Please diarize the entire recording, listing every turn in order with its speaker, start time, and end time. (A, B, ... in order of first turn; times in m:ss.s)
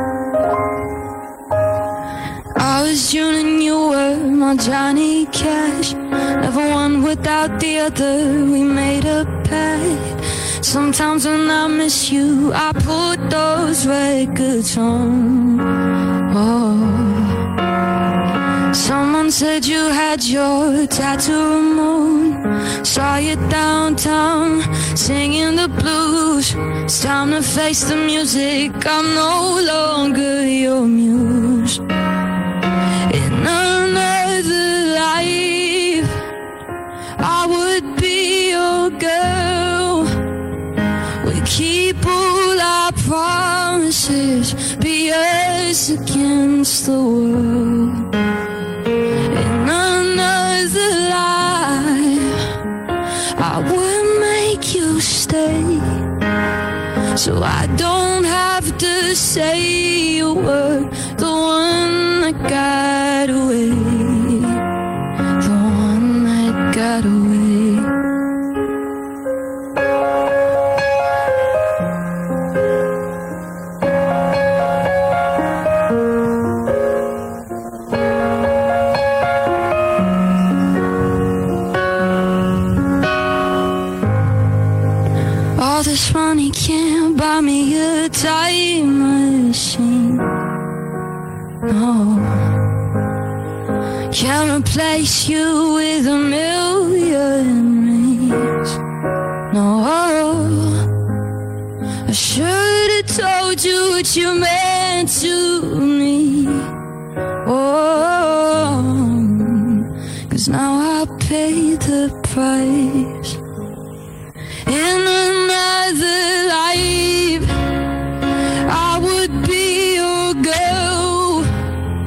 0:02.6-0:15.7 A
0:16.3-0:17.4 A
0:18.7-0:31.8 A
0:33.1-0:36.2 A
0:37.2-0:40.2 A
0:41.2-0:48.1 A
0:49.3-0:52.5 A
0:53.4-0:56.0 A
0:57.1-1:04.6 A
1:05.4-1:07.9 A
1:25.6-1:30.3 A
1:31.7-1:32.6 A
1:34.1-1:38.8 A
1:39.5-1:40.9 A
1:42.0-1:46.7 A
1:47.4-1:53.4 A
1:54.6-1:57.8 A
1:58.6-2:01.5 A